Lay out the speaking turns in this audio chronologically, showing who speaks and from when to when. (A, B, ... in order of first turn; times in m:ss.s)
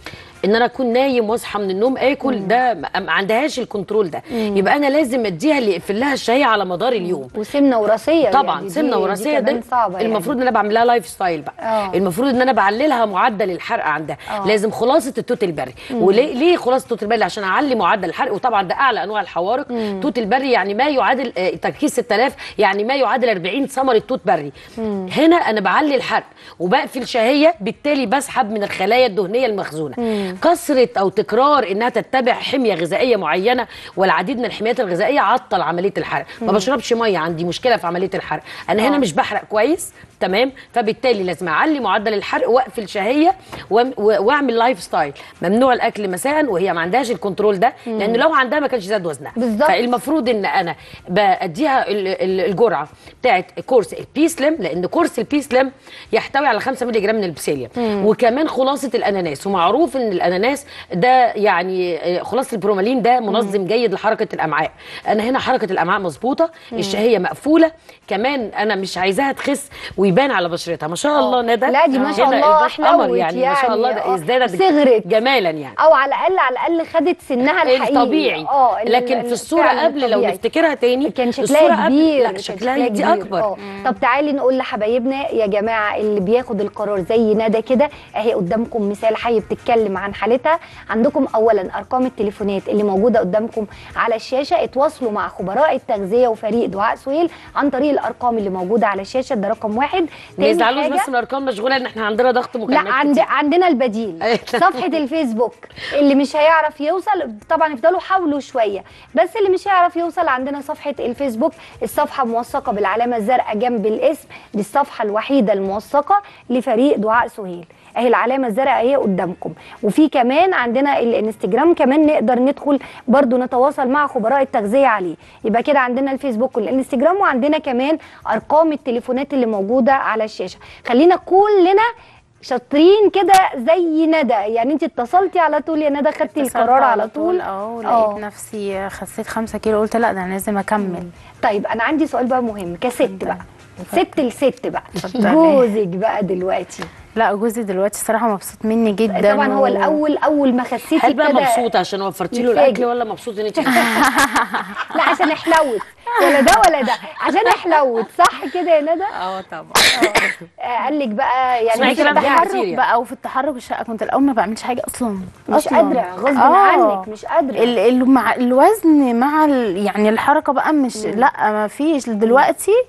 0:00.4-0:07.3 A
0:02.2-0:02.6 B
0:04.3-0:04.7 B
0:07.0-0:10.3 B
0:08.3-0:24.5 A
0:11.6-0:12.0 B
0:14.3-0:14.6 B
0:15.9-0:16.3 B
0:19.7-0:20.1 B
0:24.8-0:25.1 B
0:25.1-1:15.7 A
0:30.0-0:30.4 B
0:36.4-0:36.7 B
0:38.8-0:39.0 B
0:47.8-0:48.2 B
0:49.4-0:49.9 B
0:57.8-0:58.1 B
1:03.3-1:03.6 B
1:06.7-1:07.0 B
1:11.1-1:15.1 B
1:15.8-1:20.4 B
1:17.6-1:23.5 A
1:21.0-1:41.1 B
1:23.6-1:23.9 C
1:40.4-1:43.3 A
1:42.7-2:11.9 B
1:44.2-1:44.9 A
2:12.4-2:18.2 B
2:16.2-2:21.1 C
2:20.8-2:26.9 B
2:23.0-2:24.1 C
2:25.0-2:25.6 C
2:27.1-2:30.0 C
2:29.1-2:31.7 B
2:30.9-2:34.0 A
2:32.3-2:32.8 B
2:33.5-2:34.0 B
2:34.0-2:35.3 C
2:34.9-2:39.1 B
2:36.2-2:36.5 C
2:39.2-2:40.3 A
2:39.9-2:42.6 B
2:41.7-2:42.8 A
2:41.8-2:47.0 C
2:45.5-2:47.7 B
2:47.6-2:52.8 C
2:50.9-2:51.3 B